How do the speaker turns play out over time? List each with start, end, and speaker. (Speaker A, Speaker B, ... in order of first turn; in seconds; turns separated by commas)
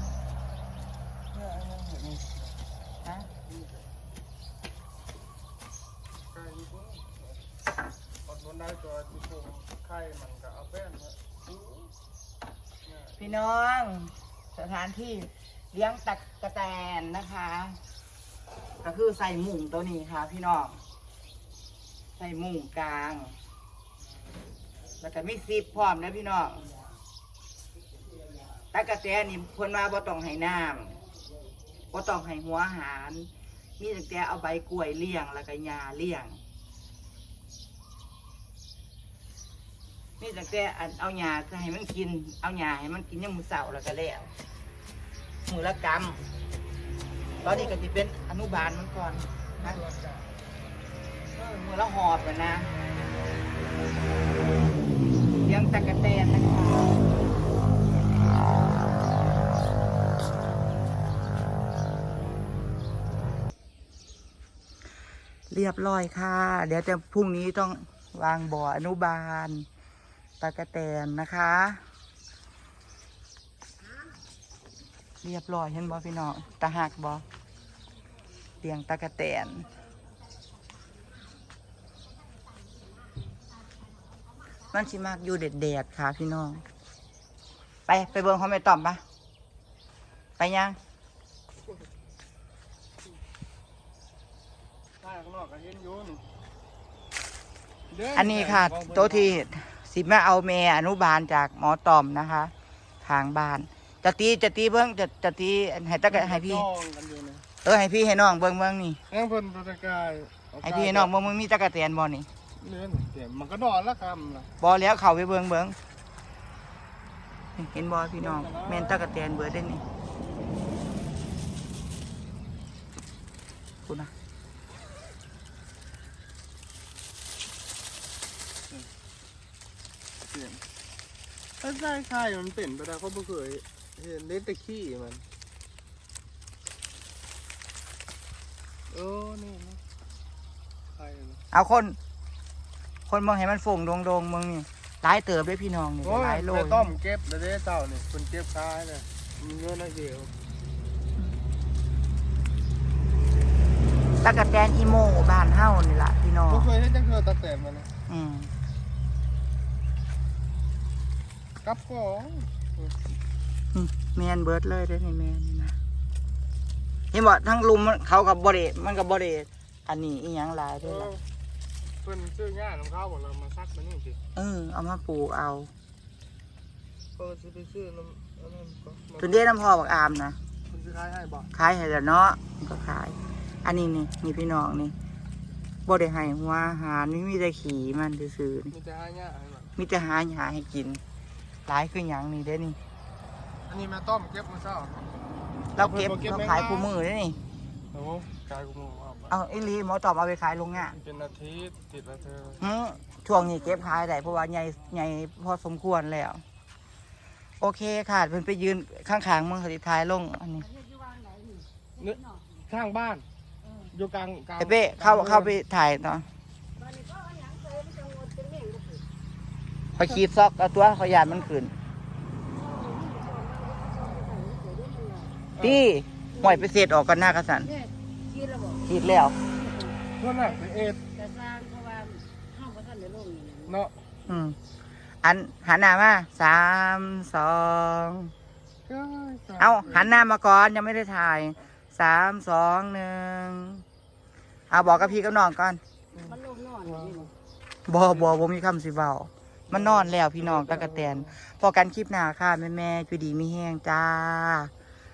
Speaker A: 1.3-2.5, Speaker B: 3.0-3.3, Speaker A: 3.4-3.9, Speaker A: 6.3-7.4, Speaker A: 8.2-11.7, Speaker A: 12.8-13.2, Speaker B: 13.2-17.8, Speaker B: 18.8-20.8, Speaker B: 22.2-23.4, Speaker B: 25.0-26.7, Speaker B: 28.7-31.0, Speaker B: 31.9-36.4, Speaker B: 40.2-44.3, Speaker B: 45.5-46.2, Speaker B: 47.4-49.8, Speaker A: 49.6-50.2, Speaker B: 51.4-52.7, Speaker B: 55.4-57.0, Speaker B: 65.5-69.7, Speaker B: 70.4-71.8, Speaker C: 73.8-74.2, Speaker B: 75.2-77.2, Speaker C: 76.1-76.8, Speaker B: 78.6-79.7, Speaker C: 79.3-81.5, Speaker C: 82.0-85.2, Speaker B: 84.7-86.6, Speaker B: 87.9-89.0, Speaker B: 90.4-90.8, Speaker A: 95.0-96.2, Speaker A: 97.9-99.4, Speaker B: 98.1-106.7, Speaker A: 106.1-107.4, Speaker B: 107.6-109.0, Speaker A: 109.1-111.1, Speaker B: 110.6-112.3, Speaker A: 112.6-114.5, Speaker B: 114.6-115.8, Speaker B: 117.6-119.8, Speaker A: 118.2-119.0, Speaker B: 123.8-124.1, Speaker A: 130.3-130.6, Speaker A: 131.6-135.2, Speaker A: 138.9-139.8, Speaker A: 141.0-141.4, Speaker B: 141.5-142.0, Speaker B: 143.1-146.9, Speaker A: 146.0-150.3, Speaker B: 154.2-156.7, Speaker A: 156.5-157.9, Speaker B: 158.1-158.5, Speaker A: 161.6-163.0, Speaker B: 163.7-165.8, Speaker B: 167.1-171.1, Speaker A: 170.8-171.2, Speaker A: 172.0-174.2, Speaker B: 174.4-175.7, Speaker A: 177.2-179.4, Speaker B: 179.2-180.4, Speaker A: 180.7-181.5, Speaker B: 181.5-184.9, Speaker B: 185.9-188.8, Speaker A: 188.7-189.7, Speaker B: 189.8-191.0, Speaker B: 191.7-192.8, Speaker A: 193.7-195.1, Speaker B: 195.8-197.4, Speaker A: 195.8-196.9, Speaker A: 197.9-199.4, Speaker B: 199.3-201.0, Speaker A: 200.9-202.7, Speaker B: 202.6-206.4, Speaker B: 207.6-210.7, Speaker C: 210.6-212.5, Speaker A: 212.0-213.2, Speaker C: 213.6-213.9, Speaker A: 213.9-215.6, Speaker B: 214.6-216.3, Speaker C: 216.8-219.0, Speaker B: 220.0-221.7, Speaker C: 221.1-221.5, Speaker C: 222.5-225.4, Speaker A: 225.6-225.8, Speaker B: 225.6-227.7, Speaker C: 226.3-226.7, Speaker C: 227.6-233.8, Speaker B: 228.9-229.3, Speaker A: 230.2-231.0, Speaker A: 233.7-233.9, Speaker B: 234.3-234.6, Speaker B: 235.2-238.3, Speaker A: 238.9-240.1, Speaker B: 239.6-243.8, Speaker B: 244.7-245.8, Speaker C: 244.8-245.2, Speaker A: 246.2-247.3, Speaker C: 246.2-247.3, Speaker B: 247.9-254.7, Speaker A: 249.7-251.3